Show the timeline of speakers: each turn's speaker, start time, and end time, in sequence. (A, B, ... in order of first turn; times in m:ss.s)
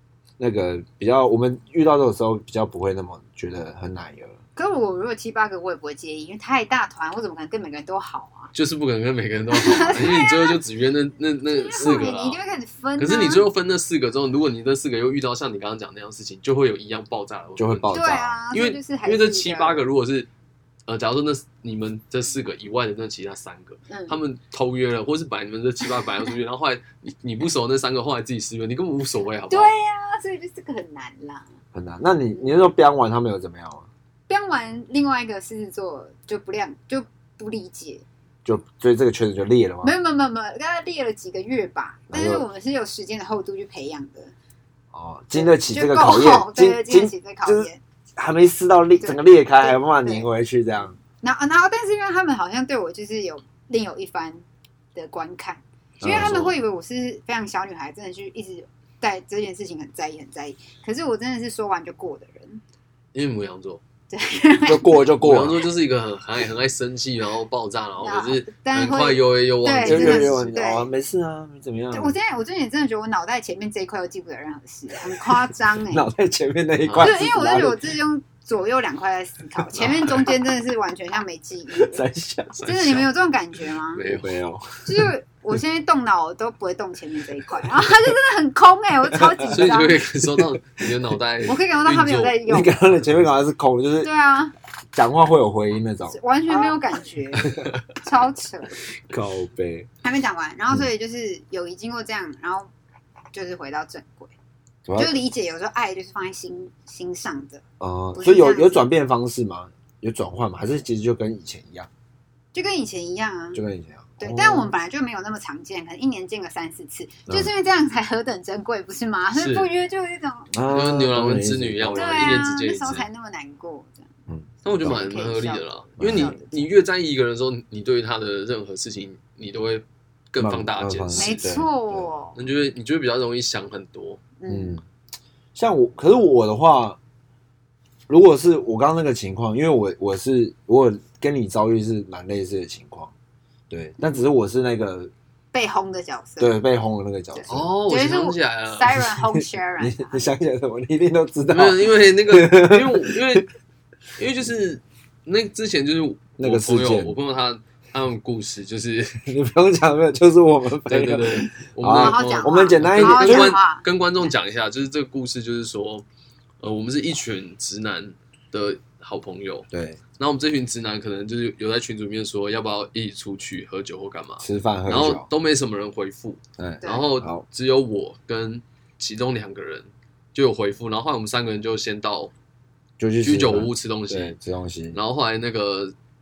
0:00.4-0:04.4 A
0:04.6-0:08.5 B
0:08.5-0:12.4 C
0:09.5-0:10.6 B
0:11.5-0:13.5 B
0:13.0-0:20.3 C
0:17.6-0:18.4 A
0:17.9-0:19.8 B
0:20.9-0:29.7 C
0:23.9-0:24.2 B
0:29.5-0:31.5 B
0:31.7-0:33.9 A
0:34.3-0:38.1 B
0:38.4-0:39.9 A
0:39.8-0:44.3 B
0:42.1-0:42.4 A
0:44.9-0:51.0 A
0:45.4-0:47.8 B
0:49.0-0:50.3 B
0:51.1-1:02.6 B
0:56.0-0:56.4 A
0:56.0-0:56.6 C
1:03.1-1:03.8 C
1:04.1-1:05.1 B
1:04.7-1:05.6 A
1:05.2-1:10.4 C
1:08.0-1:10.9 B
1:09.8-1:12.2 A
1:11.9-1:16.1 B
1:15.7-1:17.8 A
1:16.8-1:17.2 C
1:17.0-1:22.0 B
1:19.6-1:20.4 A
1:21.7-1:22.6 A
1:22.6-1:23.1 C
1:22.7-1:24.0 B
1:23.9-1:24.4 C
1:24.0-1:25.1 A
1:24.8-1:30.0 B
1:27.5-1:27.9 A
1:29.1-1:29.6 A
1:29.5-1:33.3 C
1:30.2-1:31.1 A
1:31.4-1:32.8 B
1:32.5-1:34.1 A
1:34.0-1:34.5 B
1:34.9-1:36.7 A
1:36.1-1:38.8 B
1:37.4-1:37.7 A
1:37.5-1:37.8 C
1:39.1-1:39.9 A
1:40.0-1:42.7 B
1:43.3-1:44.3 B
1:44.9-1:45.2 A
1:45.0-1:47.6 B
1:47.8-1:51.9 A
1:48.2-1:48.8 B
1:52.5-1:53.6 B
1:53.6-1:54.7 A
1:54.2-2:00.5 B
1:59.3-1:59.7 C
2:00.5-2:02.5 A
2:00.7-2:03.1 C
2:01.9-2:04.1 B
2:04.3-2:05.0 A
2:04.6-2:11.4 C
2:04.8-2:06.7 B
2:06.0-2:06.4 A
2:10.4-2:12.1 A
2:11.2-2:12.4 B
2:12.4-2:14.2 C
2:14.4-2:14.8 B
2:14.5-2:14.8 A
2:15.6-2:17.0 A
2:18.1-2:23.1 A
2:23.7-2:25.1 A
2:25.5-2:26.5 B
2:26.4-2:27.7 A
2:27.4-2:30.3 B
2:27.5-2:29.0 C
2:29.0-2:33.4 A
2:31.5-2:33.5 C
2:34.2-2:39.3 C
2:36.4-2:37.2 A
2:39.2-2:43.6 A
2:40.9-2:46.0 C
2:41.9-2:43.8 B
2:46.6-3:02.3 C
2:49.7-2:50.0 A
2:54.4-2:55.3 A
2:56.6-2:57.4 A
2:56.8-2:57.1 B
3:03.0-3:05.0 A
3:03.2-3:04.4 C
3:04.9-3:05.9 C